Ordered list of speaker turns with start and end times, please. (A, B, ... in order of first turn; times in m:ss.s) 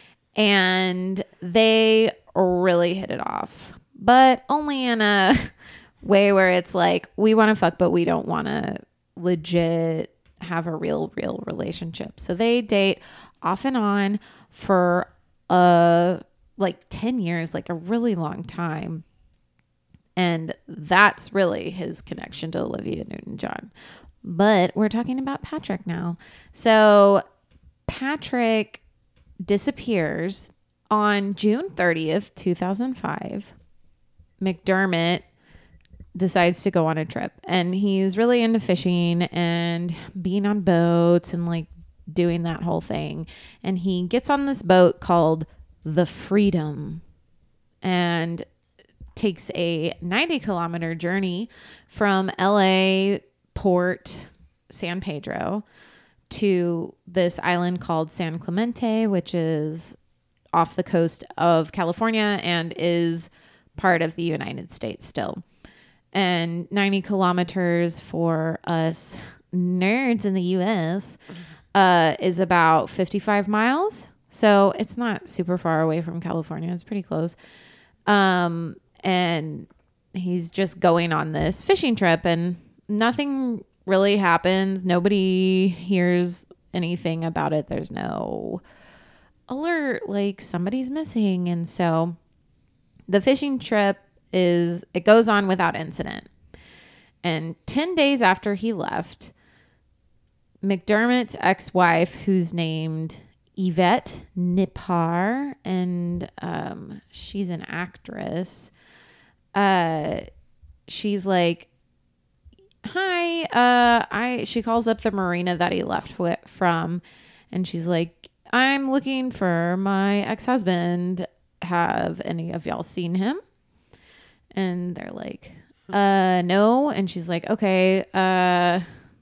0:00.4-0:19.0 A
0:20.2-0:23.7 A
0:24.2-0:27.2 A
0:27.9-0:28.8 A
0:29.4-0:33.5 A
0:34.4-0:35.2 A
0:36.2-0:47.0 A
0:47.8-0:48.5 A
0:49.2-0:55.6 A
0:56.3-1:00.0 A
1:00.5-1:05.4 A
1:06.1-1:11.2 A
1:11.7-1:17.4 A
1:18.1-1:28.6 A
1:29.5-1:32.2 A
1:33.1-1:36.3 A
1:37.2-1:39.3 A
1:40.6-1:48.7 A
1:49.5-1:50.3 A
1:50.9-1:51.7 A
1:52.8-2:03.4 A
2:04.5-2:08.9 A